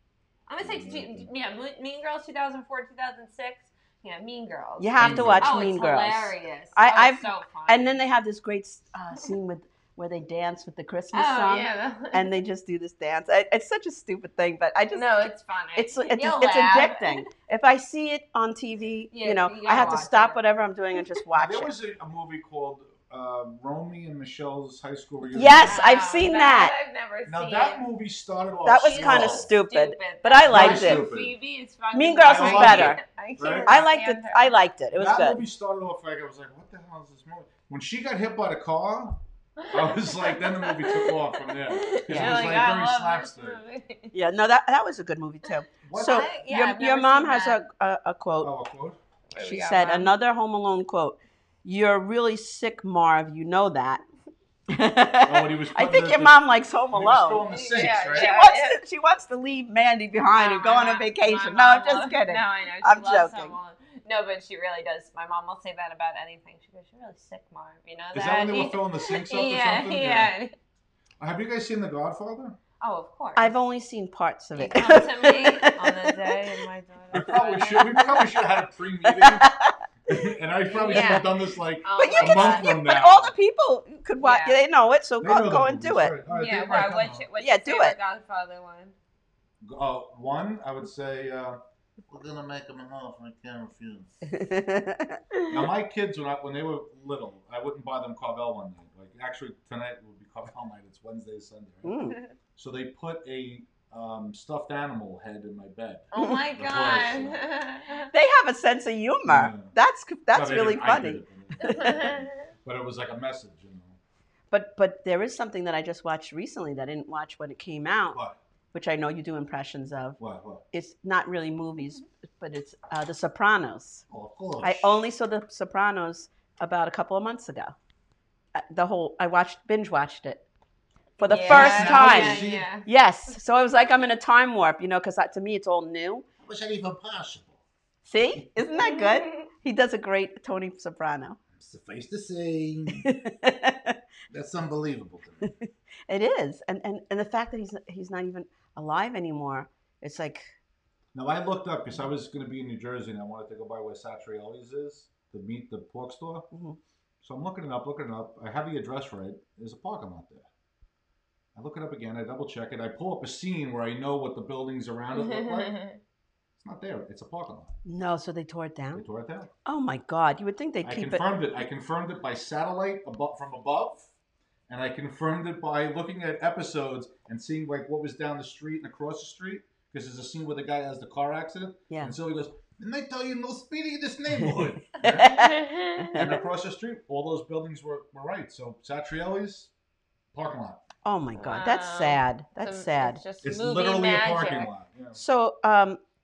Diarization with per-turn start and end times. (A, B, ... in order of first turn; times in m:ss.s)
0:00.5-0:08.0 A
0:00.6-0:01.3 B
0:04.8-0:21.7 C
0:05.0-0:05.5 B
0:11.1-0:12.3 A
0:14.9-0:17.3 A
0:19.1-0:20.4 A
0:19.7-0:20.0 B
0:21.4-0:25.8 B
0:25.3-0:26.7 C
0:25.6-0:27.9 A
0:27.3-0:29.5 B
0:28.6-0:31.0 C
0:28.8-0:34.6 A
0:30.5-0:31.3 B
0:31.9-0:33.0 C
0:32.2-0:33.8 B
0:33.6-0:35.4 C
0:34.9-0:39.2 B
0:39.6-0:44.2 A
0:39.7-0:43.6 B
0:42.1-0:42.5 C
0:44.1-0:48.5 C
0:45.8-0:46.3 B
0:46.0-0:47.6 A
0:48.4-0:49.0 B
0:49.3-0:50.1 A
0:49.4-0:54.0 C
0:54.7-1:03.6 C
0:55.2-0:58.3 B
0:57.4-0:58.8 A
1:00.3-1:10.5 A
1:08.1-1:10.3 B
1:11.2-1:12.6 B
1:12.8-1:13.6 A
1:13.4-1:16.4 C
1:14.6-1:18.1 A
1:17.1-1:19.5 B
1:17.8-1:18.3 C
1:19.0-1:20.1 C
1:20.1-1:23.3 B
1:20.7-1:21.3 A
1:20.7-1:21.3 C
1:21.8-1:22.7 A
1:22.0-1:26.2 C
1:24.2-1:24.6 A
1:25.2-1:27.3 B
1:26.3-1:29.0 A
1:27.4-1:28.0 C
1:29.6-1:34.1 B
1:34.3-1:35.2 C
1:35.5-1:42.0 B
1:41.8-1:42.2 C
1:42.6-1:47.4 B
1:46.1-1:48.1 A
1:48.1-1:52.1 C
1:49.3-1:49.7 B
1:50.3-1:54.0 B
1:51.6-1:52.3 A
1:54.5-1:58.2 C
1:58.1-1:58.4 B
1:58.7-2:00.2 C
2:00.2-2:00.6 B
2:00.7-2:04.0 C
2:04.1-2:05.0 B
2:04.6-2:07.8 C
2:08.6-2:10.4 C
2:11.2-2:16.3 C
2:11.2-2:12.9 A
2:11.3-2:12.7 B
2:16.4-2:17.6 B
2:18.0-2:21.4 C
2:18.8-2:19.4 A
2:21.6-2:23.1 B
2:23.0-2:24.0 C
2:24.3-2:25.5 B
2:25.4-2:30.5 C
2:31.1-2:36.5 B
2:36.5-2:36.8 C
2:37.2-2:40.5 B
2:41.6-2:45.8 B
2:45.1-2:46.0 A
2:46.6-2:47.7 B
2:47.8-2:49.1 C
2:48.9-2:49.5 B
2:49.6-2:51.2 C
2:50.8-2:54.1 B
2:54.7-3:05.4 B
3:04.6-3:06.4 C
3:05.1-3:06.2 A
3:06.1-3:09.7 B
3:10.3-3:10.8 B
3:11.0-3:13.2 C
3:11.4-3:14.7 A
3:13.4-3:15.2 B
3:15.2-3:16.0 C